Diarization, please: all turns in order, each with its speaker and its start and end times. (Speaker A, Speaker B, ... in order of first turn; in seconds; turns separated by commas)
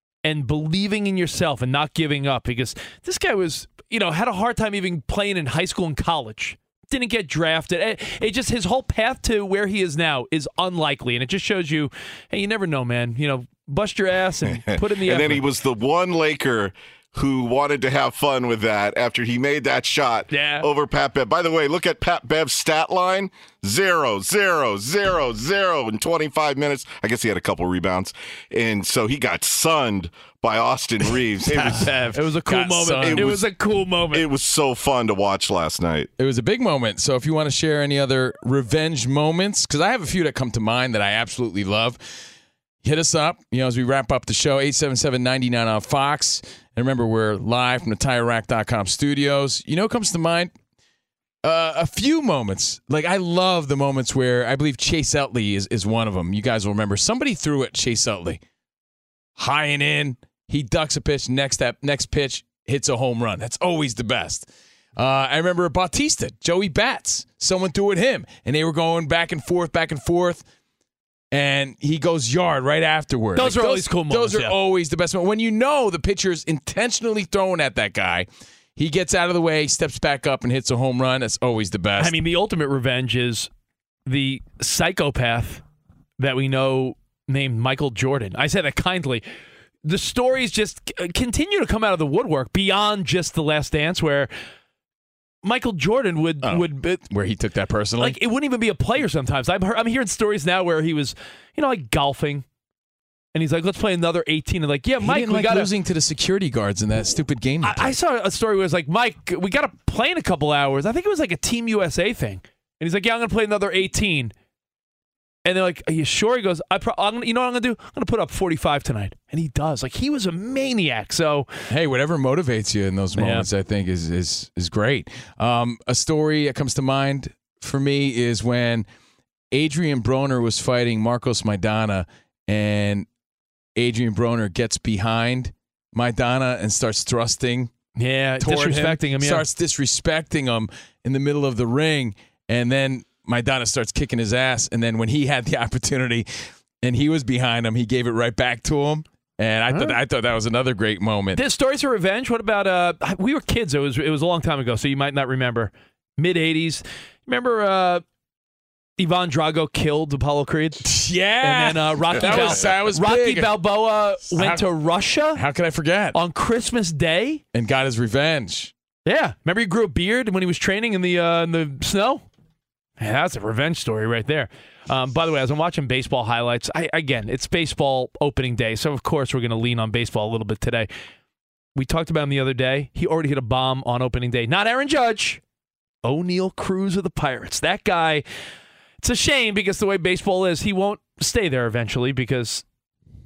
Speaker A: 0.2-15.4, Speaker B: 14.5-32.0, Speaker A: 20.3-20.6, Speaker C: 31.5-33.4, Speaker A: 32.0-34.2, Speaker B: 33.0-33.5, Speaker B: 34.1-36.1, Speaker C: 36.2-42.0, Speaker C: 42.8-50.5, Speaker C: 51.4-58.4, Speaker C: 59.4-70.4, Speaker C: 71.3-82.2, Speaker A: 73.4-74.5, Speaker A: 82.0-83.5, Speaker A: 84.1-85.6, Speaker A: 86.2-89.2, Speaker A: 89.8-94.3, Speaker A: 95.4-97.0, Speaker C: 96.4-98.2, Speaker A: 98.0-102.4, Speaker A: 103.3-105.7, Speaker C: 105.0-108.0, Speaker A: 107.6-114.3, Speaker A: 115.5-121.5, Speaker C: 121.7-128.9, Speaker A: 123.2-123.5, Speaker C: 129.5-133.1, Speaker C: 133.8-137.7, Speaker A: 138.0-139.4, Speaker C: 138.4-146.3, Speaker C: 146.8-151.4, Speaker A: 149.7-150.0, Speaker A: 151.3-158.0, Speaker A: 159.0-160.9, Speaker C: 160.8-163.6, Speaker A: 161.4-165.4, Speaker C: 164.3-164.7, Speaker C: 165.3-166.2, Speaker A: 166.1-167.4, Speaker C: 167.5-168.7, Speaker A: 169.1-172.2, Speaker A: 173.0-180.9, Speaker A: 181.8-185.4, Speaker A: 186.0-188.2, Speaker A: 189.0-192.6